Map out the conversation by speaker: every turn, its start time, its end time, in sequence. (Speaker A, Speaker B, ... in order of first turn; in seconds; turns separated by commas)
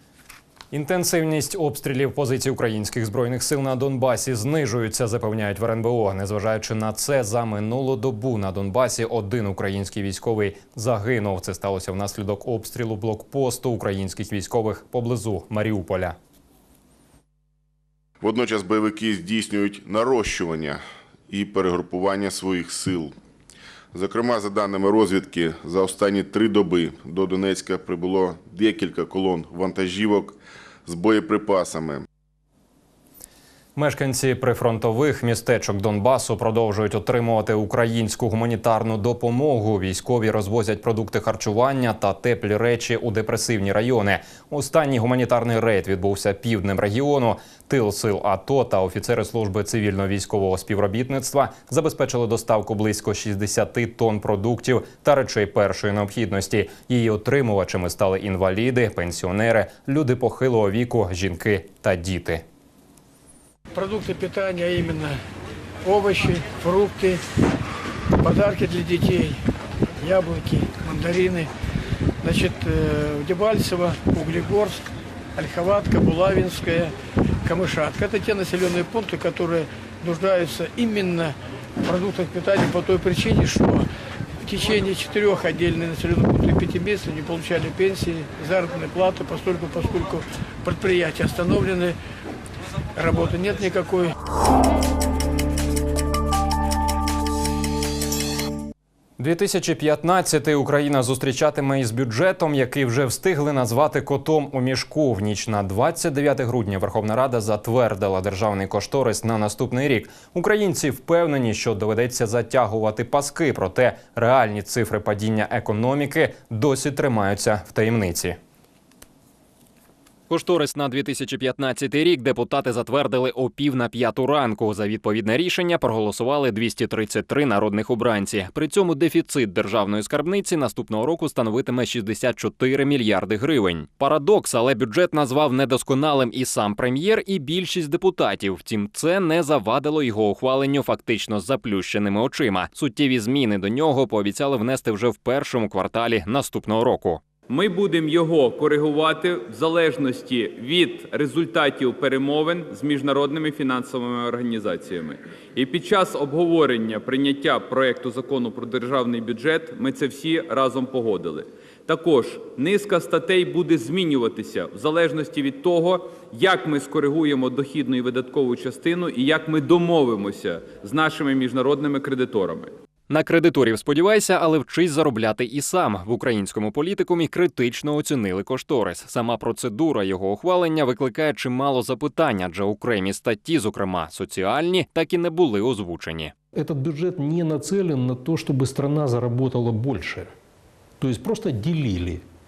Speaker A: 0.7-16.2, Speaker B: 18.2-23.1, Speaker B: 23.9-32.1, Speaker A: 33.8-62.4, Speaker C: 63.8-65.2, Speaker C: 65.8-67.2, Speaker C: 68.2-69.4, Speaker C: 70.0-71.5, Speaker C: 72.2-74.8, Speaker C: 75.4-76.9, Speaker C: 77.5-81.3, Speaker C: 81.8-83.9, Speaker C: 84.5-92.0, Speaker C: 93.0-94.1, Speaker A: 99.2-118.4, Speaker A: 120.3-147.2, Speaker D: 147.5-172.8, Speaker A: 173.1-186.3, Speaker E: 186.5-190.3, Speaker E: 191.0-192.2